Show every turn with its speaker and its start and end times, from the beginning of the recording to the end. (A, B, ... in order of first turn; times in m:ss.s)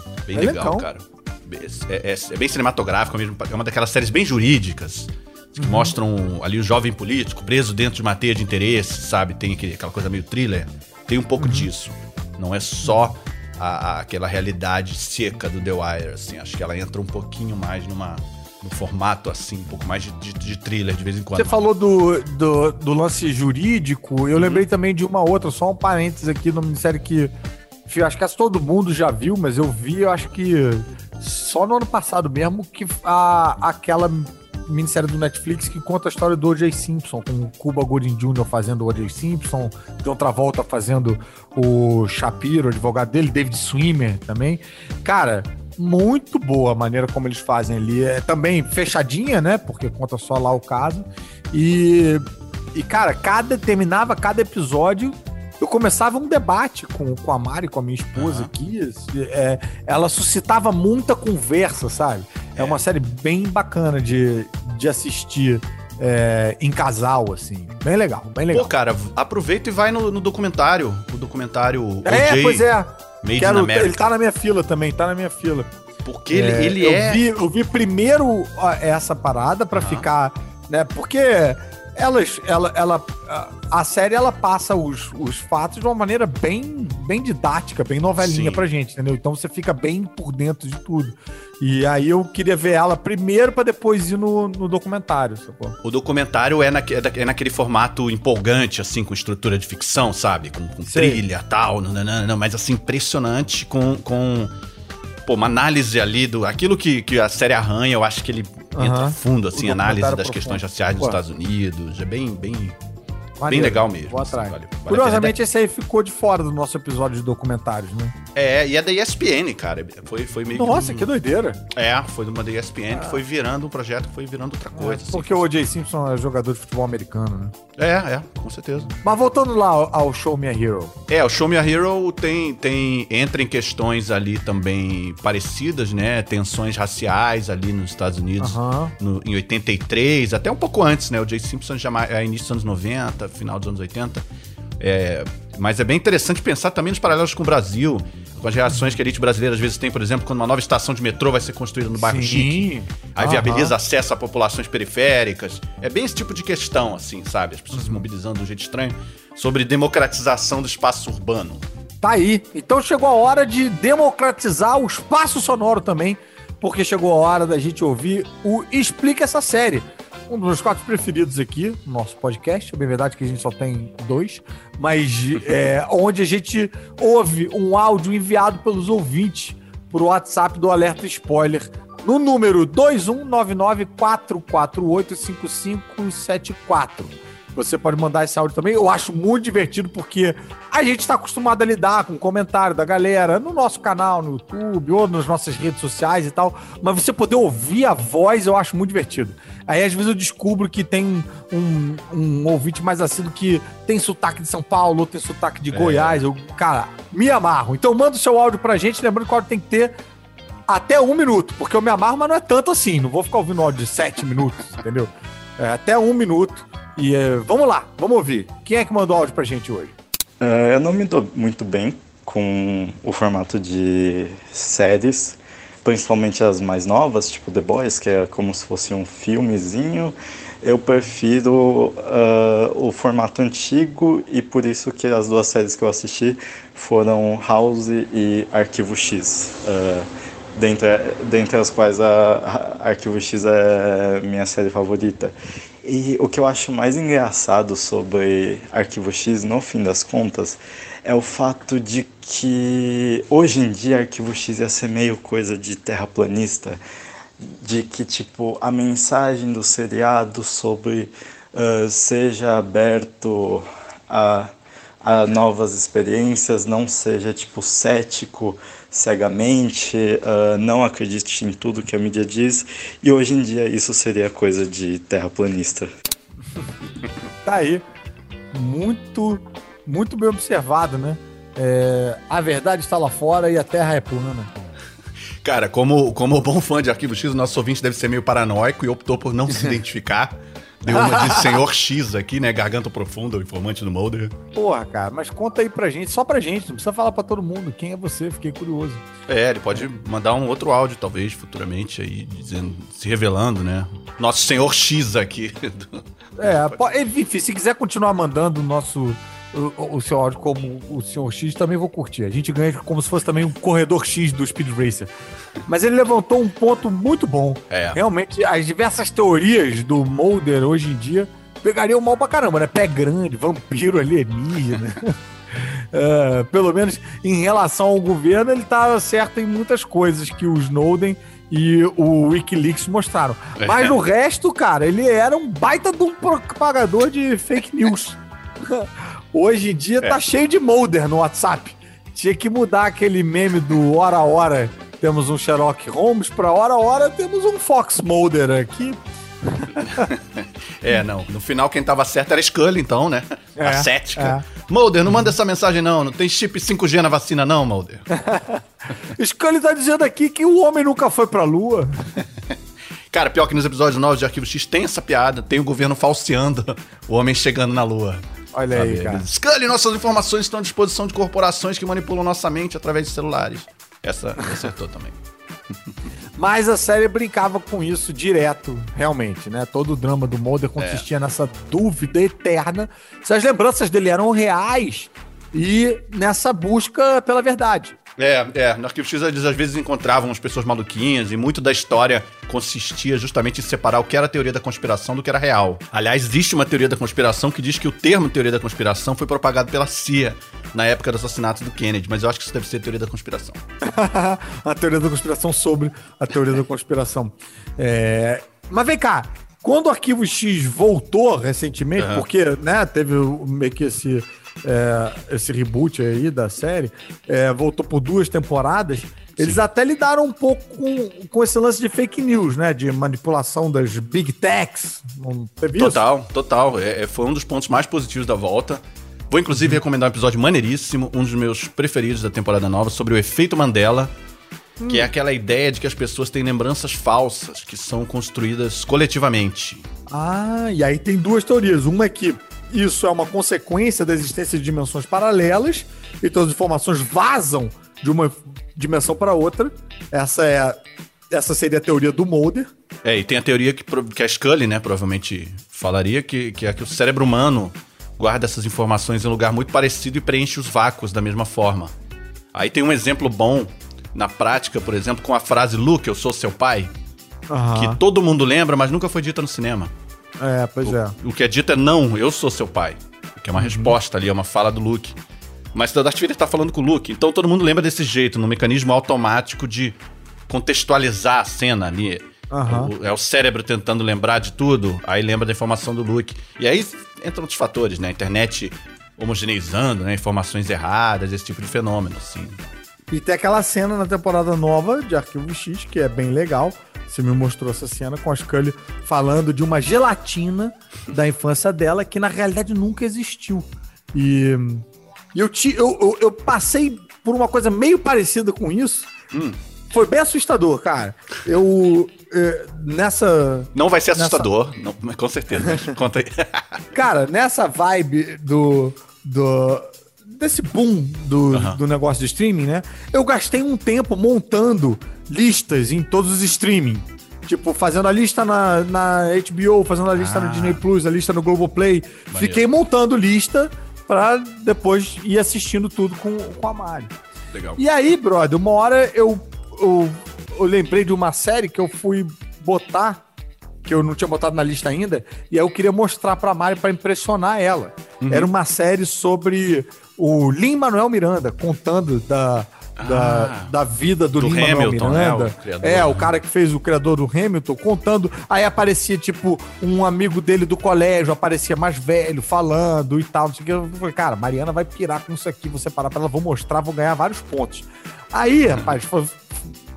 0:00.3-0:21.6 A
0:00.3-0:00.9 B
0:05.6-0:05.9 B
0:11.4-0:11.7 B
0:21.4-0:27.3 B
0:24.4-0:24.6 A
0:27.9-1:08.7 B
0:58.2-0:58.5 A
1:02.6-1:02.8 A
1:08.5-1:12.7 A
1:12.0-1:15.7 B
1:13.2-1:14.0 A
1:16.0-1:17.2 A
1:16.3-1:35.8 B
1:19.7-1:20.0 A
1:28.2-1:28.6 A
1:35.8-1:44.5 A
1:40.8-1:41.2 B
1:45.2-1:52.8 A
1:48.7-1:51.2 B
1:53.4-1:58.1 B
1:53.5-1:55.4 A
1:58.3-2:01.1 A
2:00.5-2:01.6 B
2:01.7-2:05.4 A
2:04.7-2:07.5 B
2:07.8-2:08.9 A
2:09.0-2:10.9 B
2:11.1-2:24.2 A
2:18.4-2:18.9 B
2:24.8-2:41.6 A
2:32.0-2:33.7 B
2:37.7-2:38.0 B
2:42.0-3:29.9 B
3:25.7-3:26.2 A
3:30.7-3:39.9 B
3:40.4-4:16.8 C
4:17.4-4:35.9 C
4:37.4-4:37.8 B
4:38.5-4:44.5 B
4:45.4-4:54.3 A
4:50.9-4:51.6 B
4:54.5-4:59.0 B
4:59.3-5:06.8 A
5:06.4-5:15.1 B
5:15.7-5:50.1 B
5:17.7-5:18.0 A
5:33.6-5:33.9 A
5:49.9-5:58.0 A
5:53.6-5:54.4 B
5:58.1-5:58.6 B
5:59.2-6:01.9 B
6:03.1-6:15.1 A
6:08.5-6:09.2 B
6:16.4-6:27.9 B
6:20.8-6:21.0 A
6:28.2-6:43.6 A
6:43.8-7:06.0 B
6:52.0-6:52.2 A
7:05.8-7:14.1 A
7:14.8-7:15.1 B
7:14.9-7:19.8 A
7:20.1-7:30.8 B
7:31.3-7:32.7 B
7:33.0-7:41.9 A
7:42.5-7:46.9 A
7:47.5-7:48.0 B
7:47.7-7:49.9 A
7:50.4-7:51.1 B
7:50.8-7:55.2 A
7:53.6-7:53.9 B
7:55.7-8:00.0 A
8:00.5-8:12.6 A
8:02.5-8:02.9 B
8:13.1-8:29.1 B
8:29.3-8:29.6 A
8:29.9-8:34.5 B
8:33.7-8:36.8 A
8:36.9-8:57.1 B
8:41.5-8:41.8 A
8:50.1-8:50.8 A
8:52.3-8:52.6 A
8:57.5-8:57.8 A
8:57.8-9:03.2 B
9:03.8-9:29.6 B
9:08.2-9:08.5 A
9:13.0-9:13.7 A
9:14.4-9:16.3 A